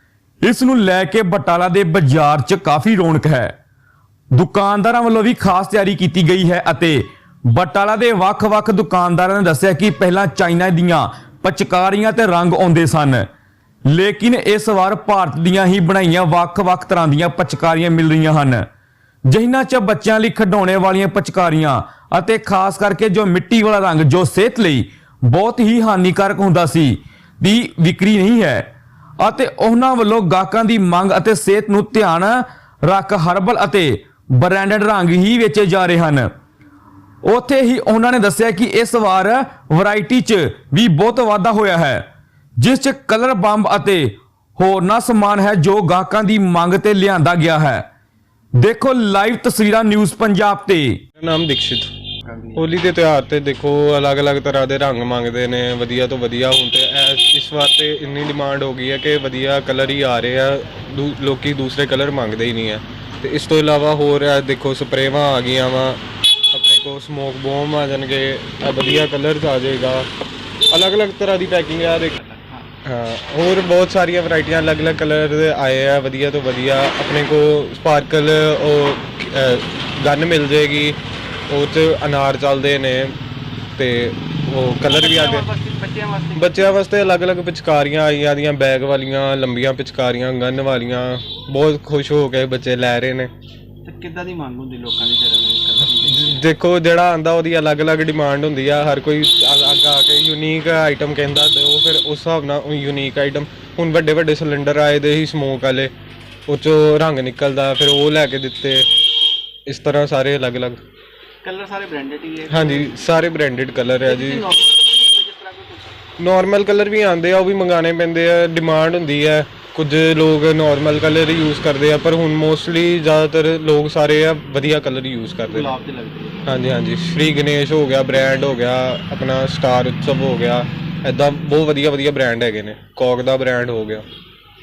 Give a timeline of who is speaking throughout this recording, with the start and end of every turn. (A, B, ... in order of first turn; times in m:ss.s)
0:00.4-0:03.5 A
0:04.3-0:13.3 A
0:13.9-0:18.7 A
0:19.3-0:28.7 A
0:29.2-0:36.3 A
0:37.2-0:42.1 A
0:42.6-0:47.8 A
0:48.6-0:51.0 A
0:51.2-0:51.9 B
0:52.3-0:52.7 C
0:52.6-1:06.0 B
1:06.5-1:10.1 B
1:10.7-1:12.3 B
1:12.3-1:12.7 C
1:12.8-1:21.0 B
1:21.5-1:23.2 B
1:23.8-1:25.5 B
1:24.7-1:26.8 C
1:26.4-1:33.3 B
1:33.8-1:36.5 C
1:35.8-1:45.9 B
1:46.5-1:48.9 B
1:49.7-1:50.8 B
1:51.4-1:53.0 C
1:52.5-1:54.5 B
1:54.1-1:56.0 C
1:56.2-2:05.8 B
2:05.5-2:06.6 C
2:06.4-2:14.1 B